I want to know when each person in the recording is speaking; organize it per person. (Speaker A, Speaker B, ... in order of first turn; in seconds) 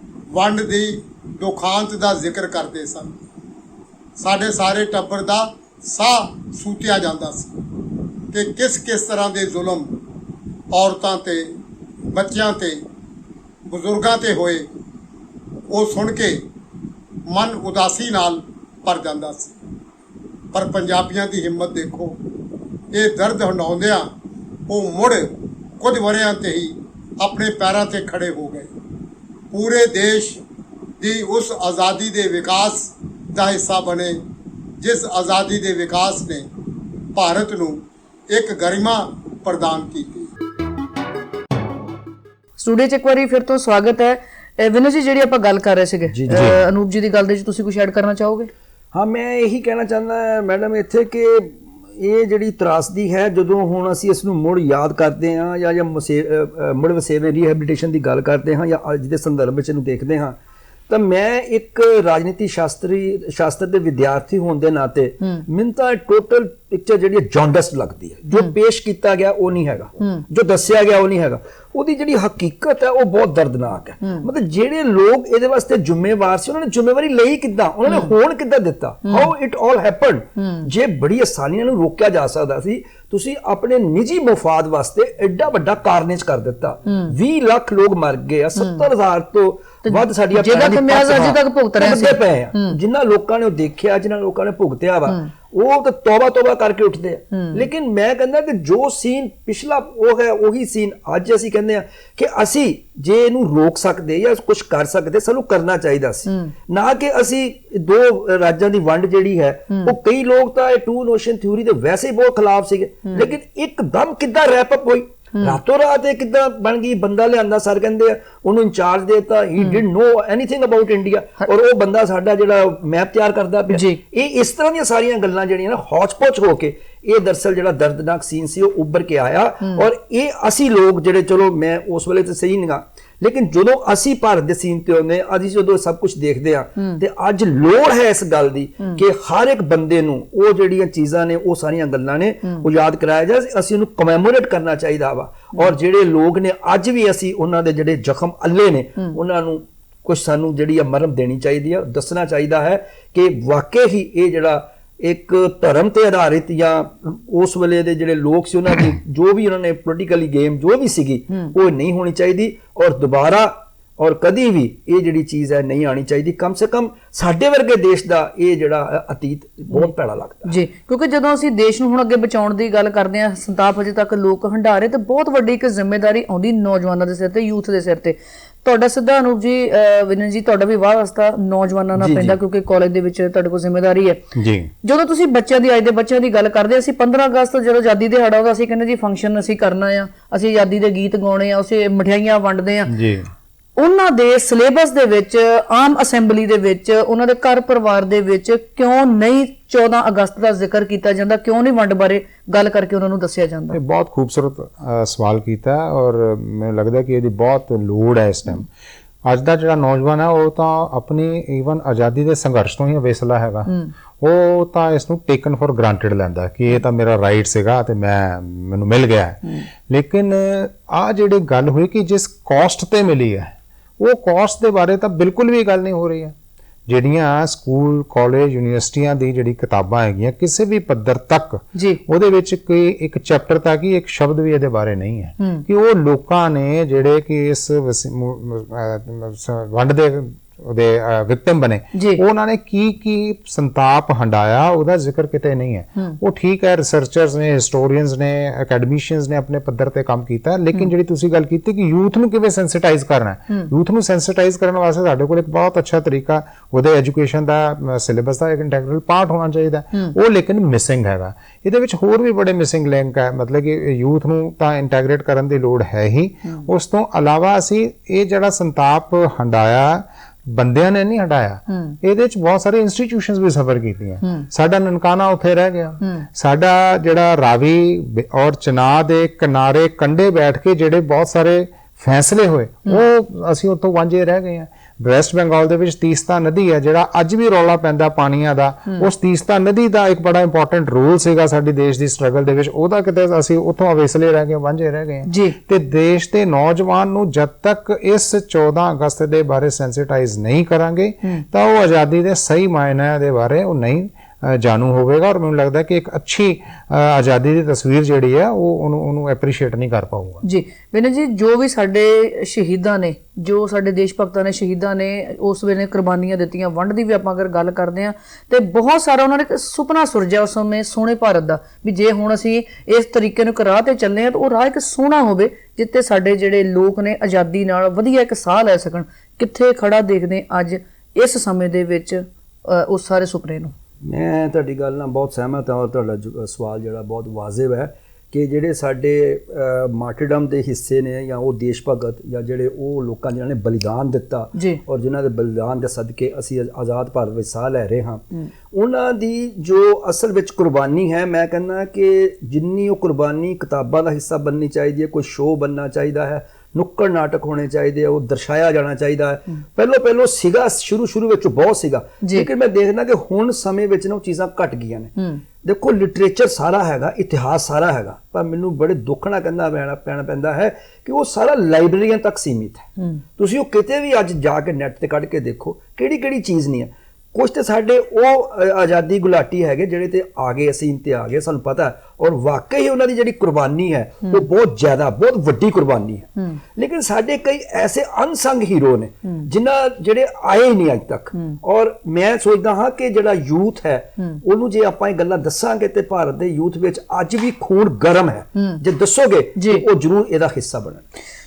Speaker A: 0.3-3.1, 4.2-7.6, 8.3-9.9, 10.7-11.4, 12.1-12.8, 13.7-14.7, 15.7-16.4, 17.3-19.6, 20.5-22.2, 22.9-24.1, 24.7-28.7, 29.5-30.4, 31.0-34.2, 34.8-36.5, 37.1-37.8, 38.3-40.3
Speaker B: 42.6-48.5, 70.0-70.3, 74.0-74.3, 77.9-78.2, 79.0-79.3, 80.4-80.7, 86.9-87.1, 88.6-88.9, 89.8-92.8, 97.3-97.7, 106.3-106.5, 109.7-110.0, 123.7-124.0, 136.8-137.0, 170.4-184.2, 184.8-192.9, 193.8-203.8, 231.8-232.0, 235.4-235.7, 241.9-242.2, 271.7-272.0, 274.2-274.5, 276.0-276.3, 295.3-295.6, 310.4-333.7, 344.6-344.8, 362.2-362.5, 365.2-365.4, 399.6-399.8
Speaker C: 46.1-46.6, 48.9-60.4, 60.9-170.5, 182.0-182.4, 334.0-401.0
Speaker D: 46.3-46.6, 184.3-184.7, 192.9-193.3, 203.7-208.7, 209.2-226.3, 226.9-310.4